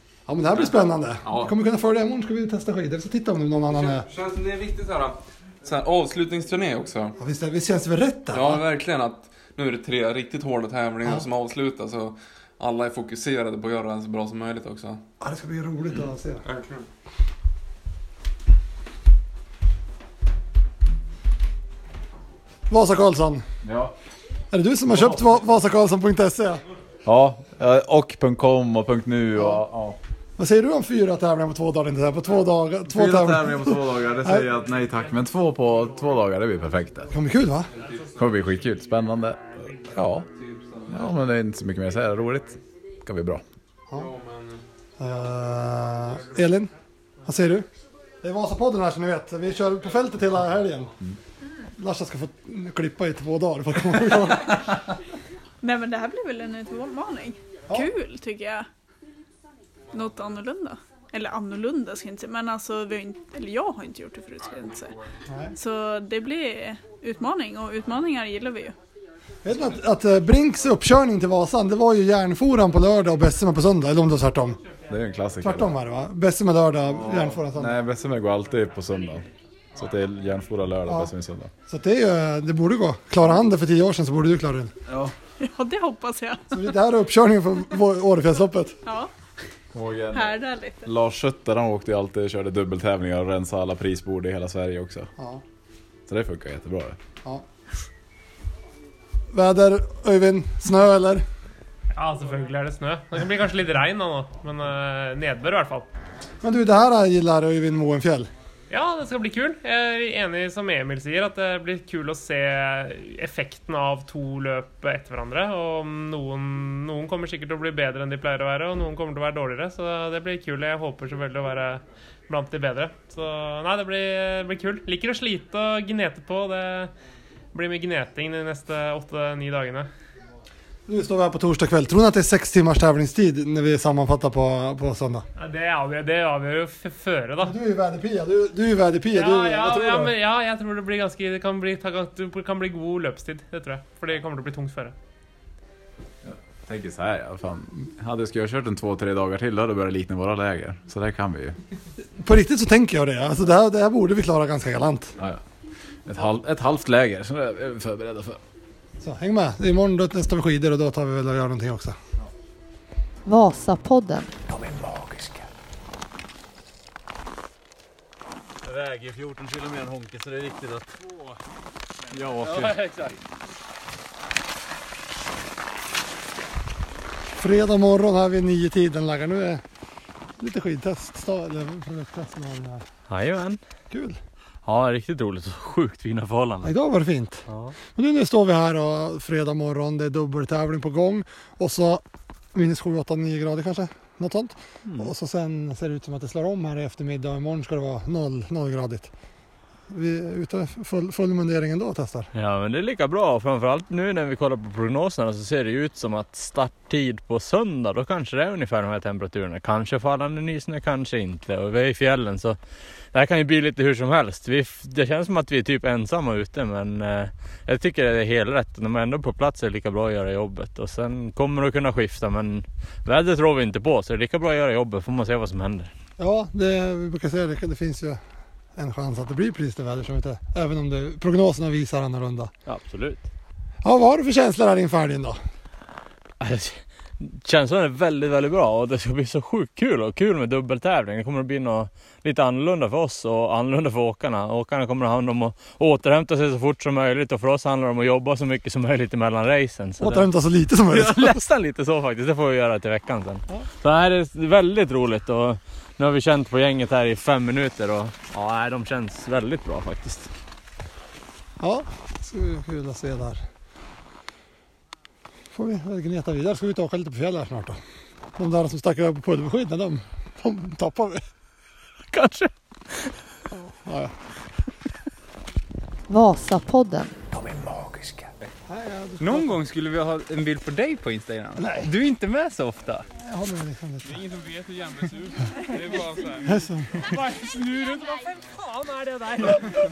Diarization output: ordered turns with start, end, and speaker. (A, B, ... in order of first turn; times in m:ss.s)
0:00.3-0:04.0 A
0:01.2-0:01.5 B
0:03.7-0:07.2 B
0:07.2-0:08.6 A
0:08.3-0:15.0 B
0:15.2-0:16.4 A
0:16.0-0:16.8 B
0:22.7-0:23.4 A
0:23.6-0:23.9 C
0:24.5-0:26.6 A
0:27.0-0:30.0 C
0:29.4-0:29.6 A
0:30.4-0:34.5 A
0:32.9-0:37.1 C
0:37.1-0:37.7 A
0:38.2-0:40.3 C
0:40.4-0:41.0 B
0:40.9-0:43.4 C
0:44.0-0:44.6 B
0:45.0-0:46.7 A
0:47.2-0:47.7 A
0:48.2-0:51.0 A
0:51.8-0:54.8 A
0:55.6-0:58.7 D
0:59.9-1:04.9 D
1:05.3-1:05.5 A
1:05.6-1:08.8 D
1:09.4-1:14.6 A
1:14.9-1:15.7 C
1:15.4-1:17.8 A
1:17.0-1:19.2 C
1:19.8-1:21.5 C
1:20.9-1:21.1 A
1:21.7-1:24.7 A
1:24.9-1:25.1 C
1:25.4-1:26.4 D
1:26.5-1:28.8 A
1:29.7-1:35.1 C
1:30.1-1:30.9 D
1:35.2-1:35.4 A
1:36.1-1:37.0 C
1:39.3-1:41.2 A
1:41.9-1:45.9 E
1:46.4-1:48.3 A
1:48.7-2:06.9 E
2:07.5-2:09.9 E
2:10.9-2:15.3 A
2:15.4-2:17.6 E
2:17.4-2:20.2 A
2:19.1-2:25.0 E
2:26.2-2:31.6 C
2:32.2-2:35.1 A
2:36.1-2:38.4 C
2:39.0-2:42.0 A
2:43.2-2:44.3 F
2:44.5-2:45.5 G
2:49.5-2:50.1 C
2:52.1-2:52.9 C
2:57.4-2:59.6 A
3:00.4-3:02.8 A
3:03.1-3:03.6 H
3:03.9-3:04.2 A
3:04.6-3:06.7 H
3:06.6-3:07.4 A
3:07.5-3:07.7 H
3:08.0-3:12.0 A
3:12.5-3:19.1 A
3:14.9-3:15.1 H
3:19.9-3:22.3 A
3:22.3-3:32.6 H
3:33.1-3:45.9 H
3:46.2-3:48.2 A
3:48.8-3:52.5 A
3:52.7-3:53.2 H
3:53.8-3:55.4 A
3:56.4-4:10.3 H
4:10.0-4:11.4 A
4:10.9-4:20.3 H
4:21.6-4:23.4 A
4:25.5-4:27.8 A
4:28.4-4:31.2 A
4:32.1-4:32.5 H
4:33.5-4:34.1 A
4:36.1-4:37.2 F
4:37.3-4:38.3 G
4:38.7-4:39.6 A
4:39.2-4:43.0 I
4:41.6-4:41.9 A
4:43.2-4:44.2 A
4:45.8-4:46.6 I
4:46.4-4:47.0 A
4:47.1-4:49.6 E